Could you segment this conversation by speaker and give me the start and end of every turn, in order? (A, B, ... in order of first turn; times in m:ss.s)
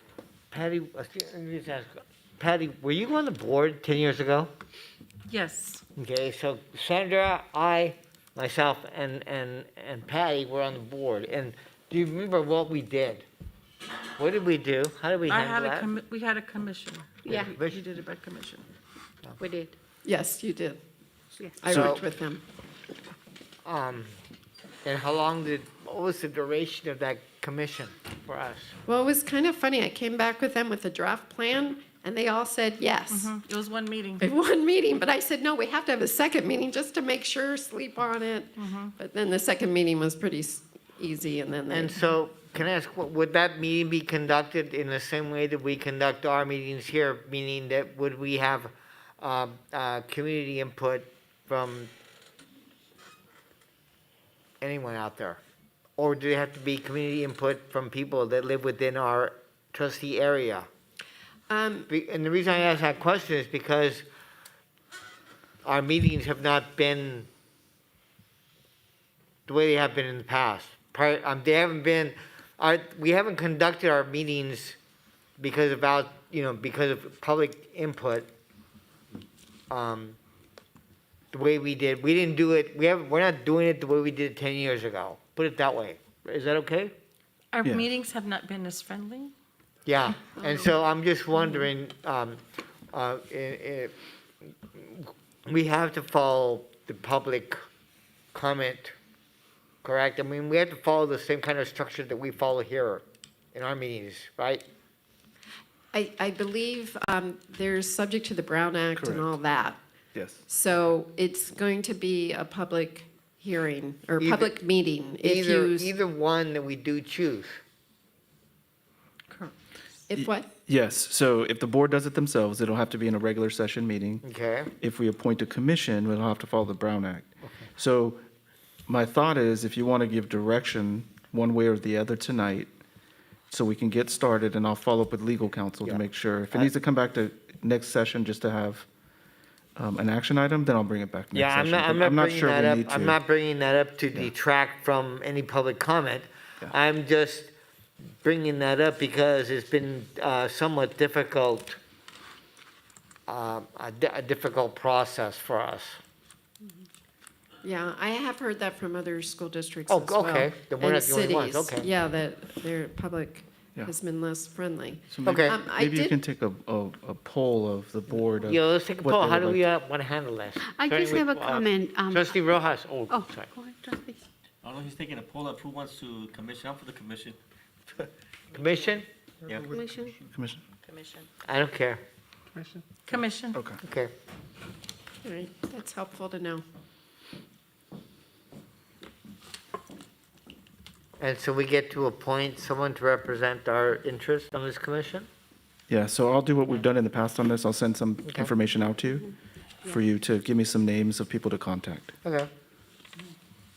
0:00.5-0:04.5 A
0:05.3-0:05.8 B
0:06.0-0:13.2 A
0:14.2-0:15.9 A
0:15.3-0:18.7 B
0:17.2-0:17.5 C
0:17.3-0:17.8 A
0:19.4-0:19.7 C
0:20.0-0:20.8 D
0:21.4-0:21.7 C
0:21.6-0:22.4 D
0:21.7-0:21.9 E
0:21.7-0:22.0 A
0:23.6-0:24.1 A
0:24.8-0:28.8 A
0:28.9-0:33.3 D
0:33.1-0:34.3 B
0:34.2-0:42.0 D
0:38.6-0:38.9 B
0:41.7-0:51.9 A
0:54.6-0:55.4 A
0:56.0-1:00.7 A
1:01.5-1:01.9 D
1:01.9-1:04.0 A
1:05.6-1:07.3 A
1:09.5-1:14.8 A
1:15.4-1:18.3 A
1:19.7-1:20.2 A
1:21.3-1:26.9 A
1:27.5-1:29.3 B
1:29.9-1:32.4 A
1:30.4-1:30.7 D
1:32.9-1:33.9 A
1:34.7-1:37.6 A
1:38.3-1:38.9 A
1:39.8-1:44.6 A
1:45.9-1:49.8 D
1:49.0-1:49.3 E
1:50.1-1:50.4 E
1:50.5-1:55.9 D
1:54.2-1:54.6 A
1:55.2-1:57.6 A
1:59.3-1:59.6 B
2:00.1-2:00.5 D
2:00.1-2:04.2 E
2:04.2-2:04.7 A
2:04.8-2:08.2 E
2:08.9-2:12.7 E
2:13.5-2:18.9 E
2:15.8-2:16.7 A
2:19.8-2:23.2 E
2:21.3-2:27.5 A
2:28.2-2:31.8 A
2:33.3-2:36.0 A
2:37.6-2:46.2 D
2:39.9-2:41.9 A
2:45.1-2:49.7 E
2:45.2-2:45.6 A
2:48.5-2:53.5 A
2:50.6-2:52.4 C
2:53.1-2:54.2 C
2:54.6-2:57.4 F
2:58.5-2:59.1 A
2:59.6-3:00.2 C
3:00.3-3:00.6 E
3:00.8-3:01.3 B
3:01.4-3:02.0 A
3:03.1-3:03.6 B
3:03.5-3:03.8 E
3:03.8-3:04.1 A
3:05.2-3:06.6 D
3:11.2-3:15.3 A
3:15.9-3:19.3 E
3:18.2-3:18.5 A
3:19.8-3:22.2 E
3:22.2-3:22.5 A